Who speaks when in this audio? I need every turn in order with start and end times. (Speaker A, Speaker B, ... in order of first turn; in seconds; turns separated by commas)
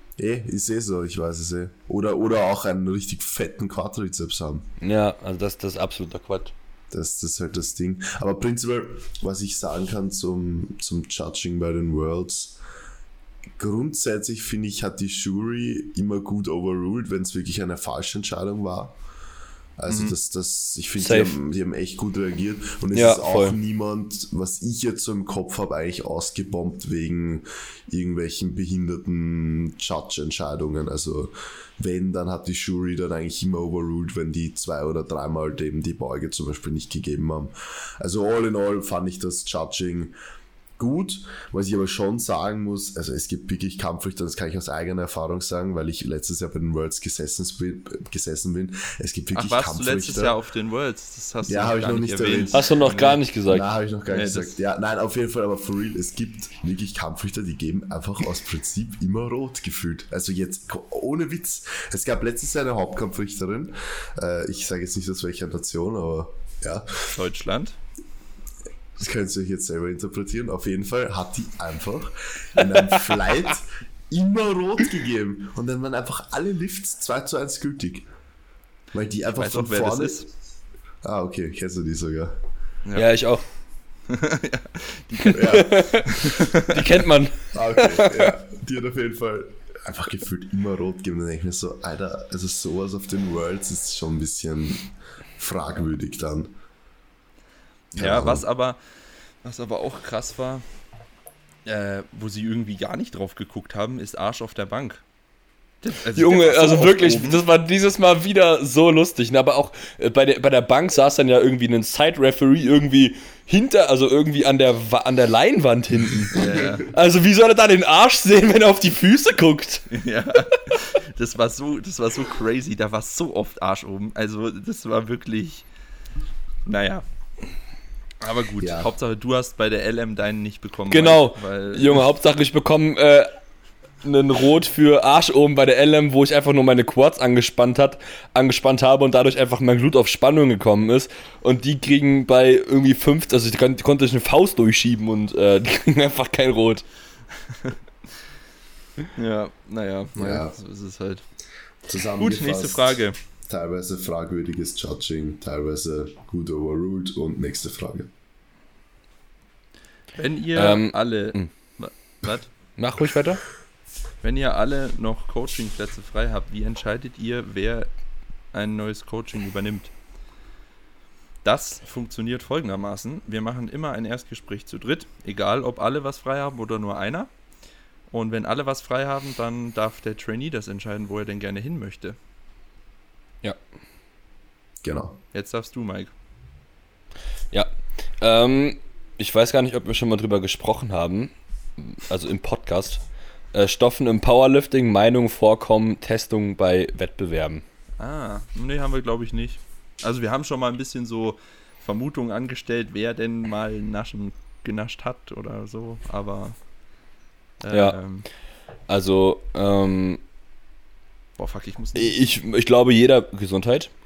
Speaker A: 0.2-4.7, Speaker B: 4.8-6.5, Speaker A: 6.9-12.6, Speaker A: 13.6-19.0, Speaker A: 19.8-40.1, Speaker C: 19.9-20.2, Speaker B: 21.0-21.4, Speaker B: 22.9-23.6, Speaker A: 40.8-50.4, Speaker C: 49.3-53.2, Speaker A: 51.5-52.7, Speaker B: 52.5-53.7, Speaker A: 53.5-67.1, Speaker C: 54.1-54.5, Speaker C: 67.1-67.8, Speaker A: 69.0-78.1, Speaker A: 78.9-80.3, Speaker C: 79.3-80.3, Speaker A: 81.0-82.4, Speaker B: 83.0-83.5, Speaker C: 84.1-86.8, Speaker A: 85.3-85.8, Speaker B: 85.4-88.3, Speaker A: 87.5-96.5, Speaker C: 97.9-98.8, Speaker A: 98.0-98.5, Speaker C: 99.4-100.6, Speaker C: 101.7-105.0, Speaker C: 105.8-107.4, Speaker B: 106.2-120.0, Speaker C: 116.1-116.9, Speaker C: 119.9-125.7, Speaker C: 126.7-127.0, Speaker C: 128.2-132.0, Speaker A: 128.6-128.9, Speaker B: 130.9-133.3, Speaker B: 134.0-146.8, Speaker C: 149.2-151.2, Speaker A: 150.2-150.6, Speaker A: 151.9-158.1, Speaker C: 152.2-153.2, Speaker C: 160.1-162.5, Speaker B: 160.6-161.5, Speaker B: 162.8-163.5, Speaker C: 164.2-167.9, Speaker C: 168.5-169.9, Speaker C: 171.4-177.3, Speaker C: 178.1-182.2, Speaker A: 184.8-185.2, Speaker C: 185.3-186.1, Speaker B: 187.5-193.0, Speaker B: 193.5-197.6, Speaker C: 198.0-206.6, Speaker C: 207.6-208.3, Speaker B: 207.7-208.0, Speaker B: 208.9-210.2, Speaker C: 211.4-212.2, Speaker B: 211.9-213.9